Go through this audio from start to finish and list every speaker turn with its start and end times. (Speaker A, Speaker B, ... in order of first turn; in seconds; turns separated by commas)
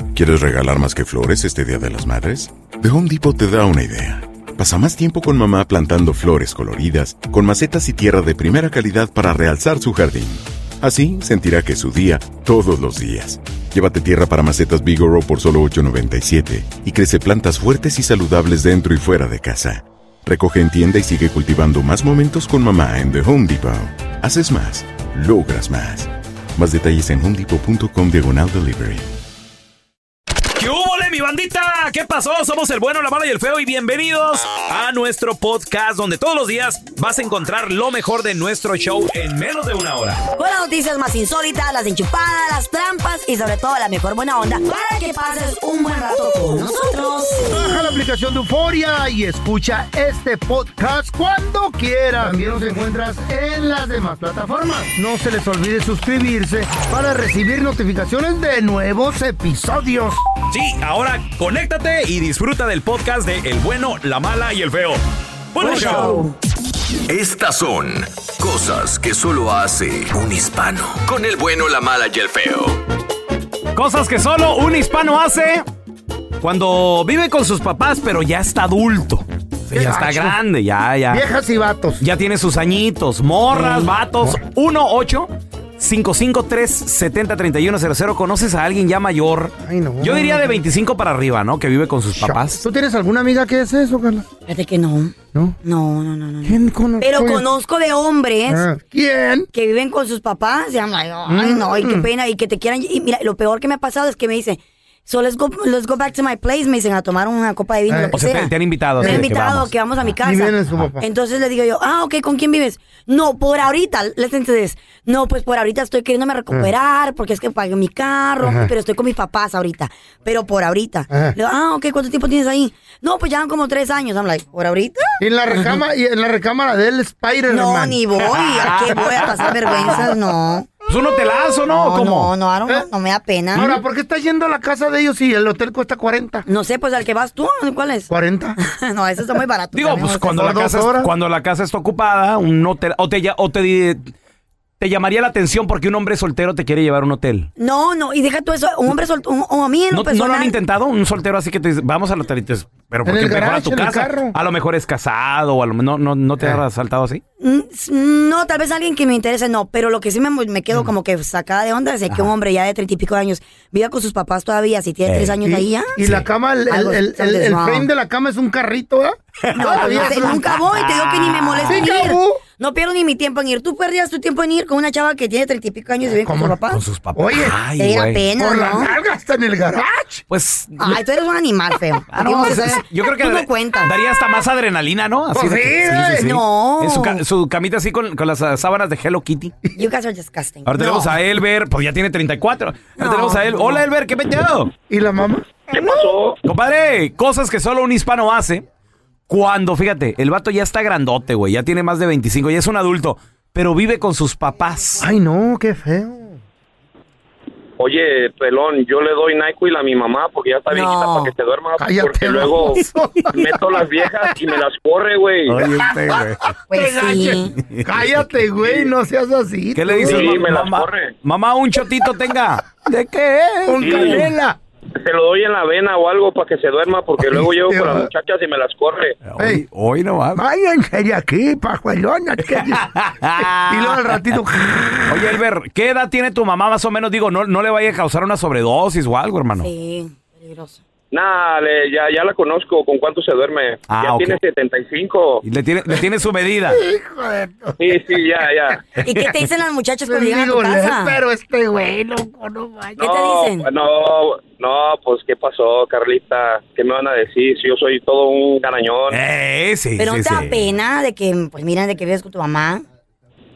Speaker A: 0.1-29.1, Speaker B: 30.6-40.2, Speaker C: 40.4-47.8, Speaker D: 47.4-60.2, Speaker B: 60.5-65.0, Speaker B: 65.5-66.2, Speaker C: 65.6-66.3, Speaker E: 67.4-67.9, Speaker E: 68.5-72.2, Speaker B: 73.8-75.7, Speaker B: 76.4-81.2, Speaker D: 79.7-80.4, Speaker D: 81.1-82.0, Speaker B: 82.0-92.6, Speaker C: 83.6-83.9, Speaker D: 89.6-90.6, Speaker D: 92.2-94.2, Speaker C: 94.5-98.7, Speaker D: 95.3-95.6, Speaker D: 96.4-97.5, Speaker D: 98.5-99.5, Speaker C: 99.5-125.8, Speaker D: 101.3-102.1, Speaker D: 107.9-108.2, Speaker B: 108.1-109.7, Speaker D: 109.0-109.3, Speaker D: 110.2-111.1, Speaker D: 118.4-118.7, Speaker D: 121.1-121.4, Speaker D: 125.2-128.0, Speaker C: 127.5-130.7, Speaker B: 128.4-130.0, Speaker D: 128.7-130.0, Speaker B: 130.9-132.3, Speaker C: 131.7-133.8, Speaker D: 133.5-136.5, Speaker C: 136.5-140.6, Speaker D: 138.1-138.6, Speaker B: 139.7-144.1, Speaker D: 140.3-141.1, Speaker B: 144.8-147.5, Speaker C: 147.6-150.6, Speaker B: 149.9-157.2, Speaker D: 153.1-154.3, Speaker C: 157.4-166.1, Speaker B: 165.1-165.4, Speaker D: 165.5-170.6, Speaker C: 166.7-167.9, Speaker B: 169.5-172.1, Speaker C: 169.5-176.8, Speaker D: 171.7-172.4, Speaker D: 176.2-176.6, Speaker B: 176.7-178.2, Speaker D: 177.2-177.6, Speaker C: 177.8-178.9, Speaker D: 178.4-180.2, Speaker B: 180.3-181.0, Speaker C: 180.8-183.9, Speaker B: 182.1-189.5, Speaker D: 185.3-186.3, Speaker C: 186.1-187.2, Speaker C: 189.8-191.0, Speaker B: 190.7-194.7, Speaker D: 190.8-191.1, Speaker C: 193.0-193.8, Speaker D: 194.9-196.1, Speaker F: 195.7-196.4, Speaker B: 196.4-198.7, Speaker B: 199.3-205.1, Speaker D: 205.0-206.4, Speaker F: 207.8-215.6, Speaker C: 210.7-211.3, Speaker D: 211.8-214.4, Speaker B: 215.5-216.5, Speaker D: 215.7-220.6, Speaker C: 216.7-217.5, Speaker B: 219.8-224.3, Speaker F: 220.0-221.2, Speaker D: 223.6-224.6, Speaker F: 223.8-224.3, Speaker F: 225.0-229.2, Speaker D: 227.2-228.1, Speaker B: 229.2-230.4, Speaker D: 229.4-229.7, Speaker D: 230.3-235.3, Speaker B: 232.7-234.4, Speaker B: 235.1-239.7, Speaker C: 239.6-240.8, Speaker F: 241.1-245.4, Speaker B: 243.9-244.4, Speaker B: 245.4-246.8, Speaker D: 246.7-248.2, Speaker F: 247.8-248.8, Speaker D: 248.7-249.2, Speaker C: 249.0-251.2, Speaker D: 250.1-253.0, Speaker C: 253.0-253.7, Speaker F: 253.0-259.2, Speaker B: 259.1-260.6, Speaker C: 260.0-262.8